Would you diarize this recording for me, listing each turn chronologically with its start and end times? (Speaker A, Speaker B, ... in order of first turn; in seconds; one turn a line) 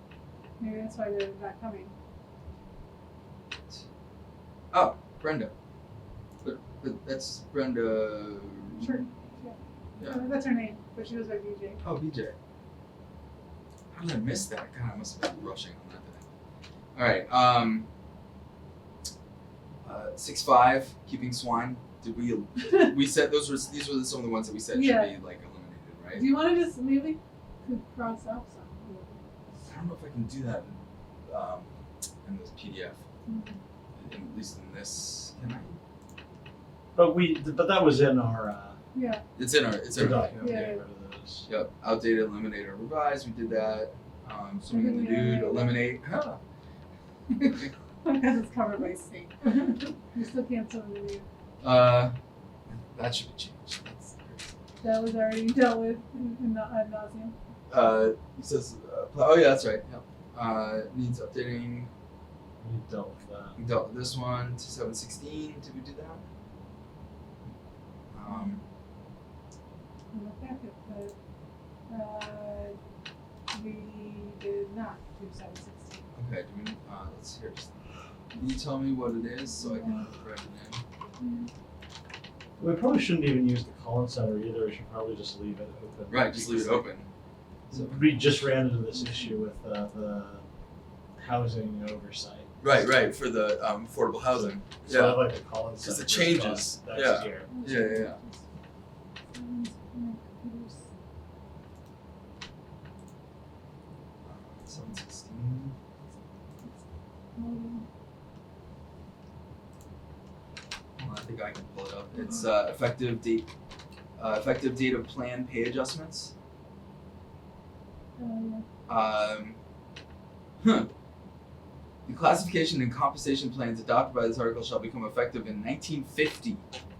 Speaker A: 0.6-1.9
Speaker B: 4.7-5.5
Speaker B: 6.4-9.1
Speaker A: 8.8-11.8
Speaker B: 10.0-10.3
Speaker B: 11.8-12.4
Speaker B: 13.9-16.2
Speaker B: 16.9-17.9
Speaker B: 19.8-26.4
Speaker A: 24.7-25.2
Speaker A: 26.1-29.2
Speaker B: 29.7-31.7
Speaker B: 32.2-33.0
Speaker A: 33.3-33.6
Speaker B: 34.0-35.8
Speaker C: 37.0-38.8
Speaker A: 39.0-39.2
Speaker B: 39.4-40.8
Speaker C: 39.9-41.5
Speaker A: 40.4-40.8
Speaker B: 41.5-46.4
Speaker A: 44.7-45.9
Speaker B: 47.3-47.7
Speaker A: 48.0-51.3
Speaker B: 51.6-52.1
Speaker B: 52.7-54.6
Speaker A: 54.8-57.4
Speaker B: 57.7-61.9
Speaker C: 62.6-63.6
Speaker B: 63.6-66.2
Speaker B: 68.1-68.6
Speaker A: 70.1-71.2
Speaker A: 71.9-72.8
Speaker A: 73.5-76.1
Speaker B: 76.1-77.8
Speaker B: 78.4-80.8
Speaker A: 79.7-80.1
Speaker A: 81.2-81.5
Speaker C: 82.6-86.9
Speaker B: 86.1-87.1
Speaker B: 87.7-88.5
Speaker C: 87.7-90.5
Speaker A: 88.9-89.4
Speaker C: 91.2-92.5
Speaker B: 92.6-98.2
Speaker C: 94.3-97.5
Speaker A: 97.5-98.4
Speaker A: 99.3-100.8
Speaker B: 104.2-105.8
Speaker A: 107.4-107.8
Speaker B: 111.0-113.5
Speaker B: 114.2-116.3
Speaker A: 118.2-118.7
Speaker B: 118.9-119.6
Speaker B: 120.6-120.9
Speaker B: 122.1-126.6